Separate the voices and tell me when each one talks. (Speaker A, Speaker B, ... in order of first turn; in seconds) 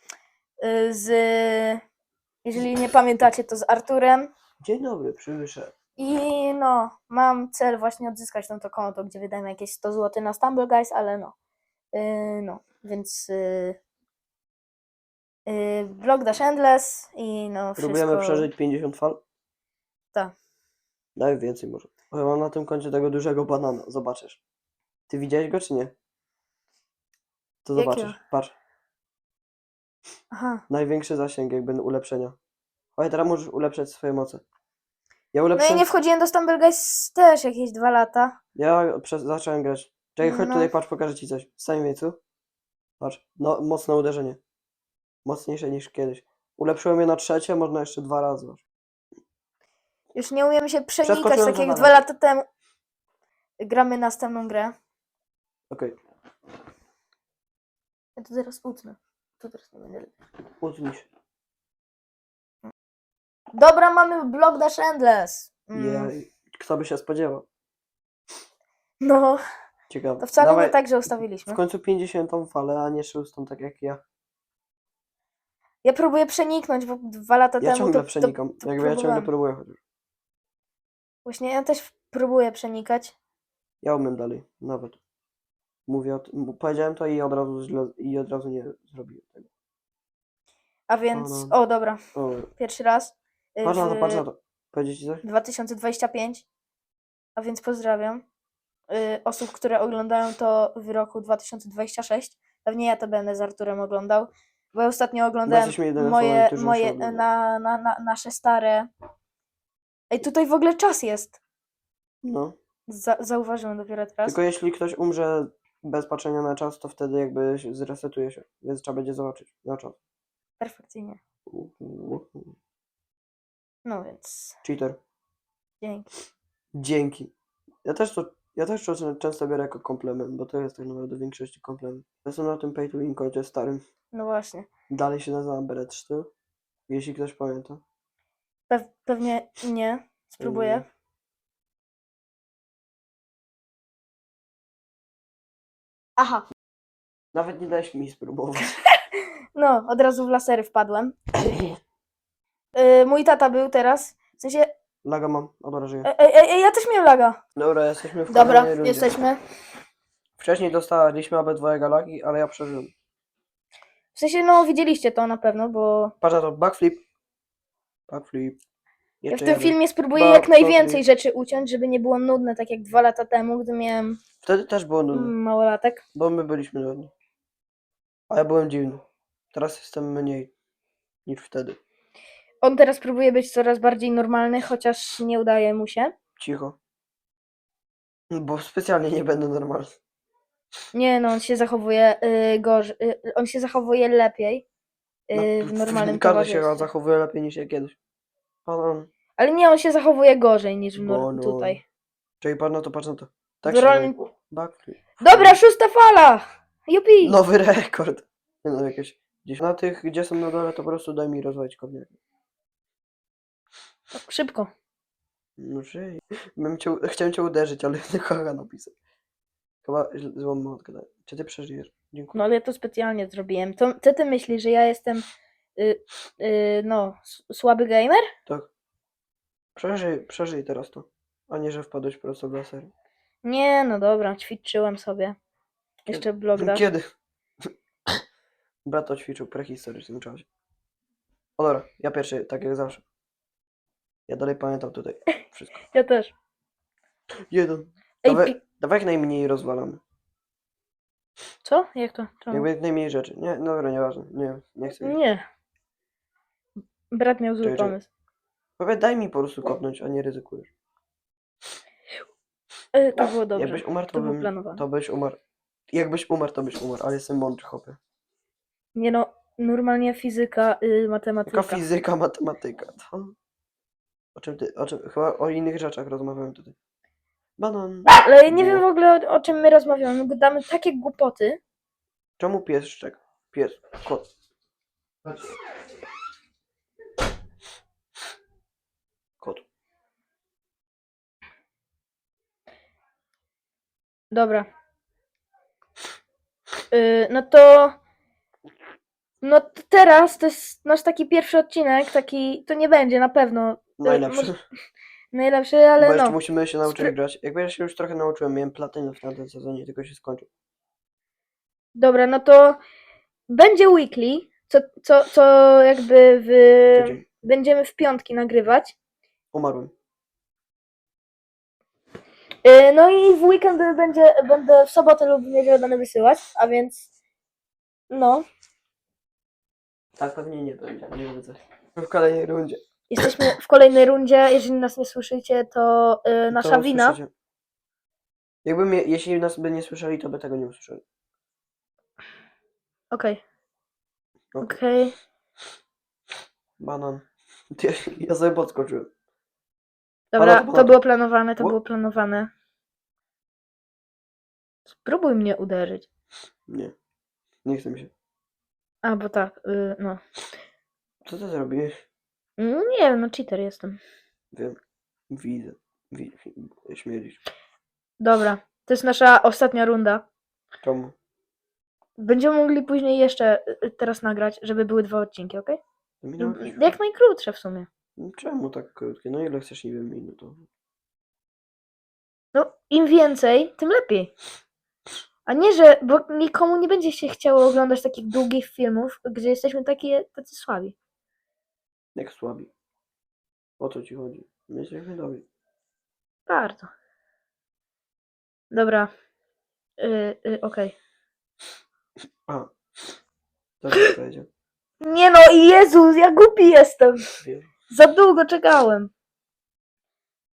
Speaker A: 0.6-1.8, 2.4-4.3, 6.0-11.3, 11.9-13.8, 15.4-18.5, 27.8-28.2, 30.3-30.6, 35.5-38.4, 40.2-40.7, 50.1-52.5, 53.6-54.7, 58.2-60.1, 63.5-66.1, 69.0-69.4, 70.2-71.6, 75.8-79.3, 81.2-83.1, 90.9-92.0, 92.6-94.2, 95.2-96.4, 97.3-98.2, 98.9-108.9, 110.1-111.4, 112.9-114.4, 120.6-121.2, 123.8-124.6, 125.8-126.1, 134.1-134.7, 138.7-140.8, 146.2-146.4, 149.5-151.2, 152.7-154.7, 156.0-157.4, 158.3-159.4, 164.1-166.1, 169.3-174.2, 175.1-176.0, 182.6-186.1, 190.9-194.6, 195.3-196.9, 199.4-201.8, 203.7-204.2, 205.2-207.4, 214.1-214.7, 222.3-225.2, 225.8-228.3, 233.4-235.4, 236.1-236.8, 245.9-246.3, 248.2-248.6, 251.6-252.7, 255.0-255.4, 257.1-258.1, 262.9-264.8, 268.9-271.8, 278.1-281.6, 294.3-294.7, 296.9-297.9, 299.4-304.5, 305.3-307.1, 311.9-312.8, 313.5-318.9, 322.6-327.1, 328.1-328.4, 333.1-337.2, 343.1-343.4, 344.6-345.1, 350.3-352.5, 354.9-356.1, 359.0-360.2, 362.6-364.0, 368.2-370.2, 372.2-375.8, 376.4-377.9, 382.5-384.3, 385.4-390.9, 396.5-396.9, 398.7-399.1, 400.0-400.9, 405.0-407.2, 407.9-409.1
Speaker B: 4.6-5.7, 17.8-19.2, 21.2-24.4, 25.1-25.9, 27.6-28.6, 30.7-32.4, 33.0-34.4, 35.3-35.9, 38.5-42.2, 43.0-44.4, 45.2-48.6, 51.0-52.0, 55.7-56.0, 60.6-61.1, 65.7-67.4, 69.9-70.8, 71.4-74.0, 77.6-79.8, 83.8-85.0, 85.9-89.5, 91.1-91.6, 92.2-92.5, 93.6-95.2, 105.5-107.2, 112.2-112.6, 114.2-120.0, 121.5-122.6, 124.6-125.0, 126.7-127.3, 127.8-133.8, 134.9-136.3, 136.9-137.8, 140.4-140.9, 147.3-148.8, 155.0-156.1, 157.5-159.1, 160.4-162.9, 166.2-167.0, 168.1-168.6, 169.2-171.0, 174.4-175.3, 176.1-177.1, 178.3-180.5, 181.2-181.8, 186.4-186.8, 188.3-189.9, 195.3-198.0, 198.7-199.1, 200.9-201.8, 202.4-205.6, 207.2-212.2, 215.6-218.9, 219.8-222.4, 229.8-232.9, 236.1-237.1, 237.6-238.2, 238.8-240.5, 241.6-243.0, 244.3-245.8, 247.5-250.0, 252.5-255.2, 257.6-257.9, 258.8-260.7, 263.6-265.4, 265.9-268.0, 271.5-273.4, 274.4-276.8, 277.6-278.8, 282.4-284.3, 304.0-304.6, 306.0-310.5, 316.9-317.2, 319.5-319.9, 330.1-332.8, 336.5-337.3, 338.6-341.0, 344.5-344.8, 346.8-349.1, 350.4-351.0, 356.7-356.9, 357.6-358.1, 361.2-362.0, 364.5-364.8, 365.3-367.4, 370.8-371.1, 376.2-377.0, 378.2-380.7, 392.1-392.7, 393.8-395.4, 403.8-404.5, 407.4-407.7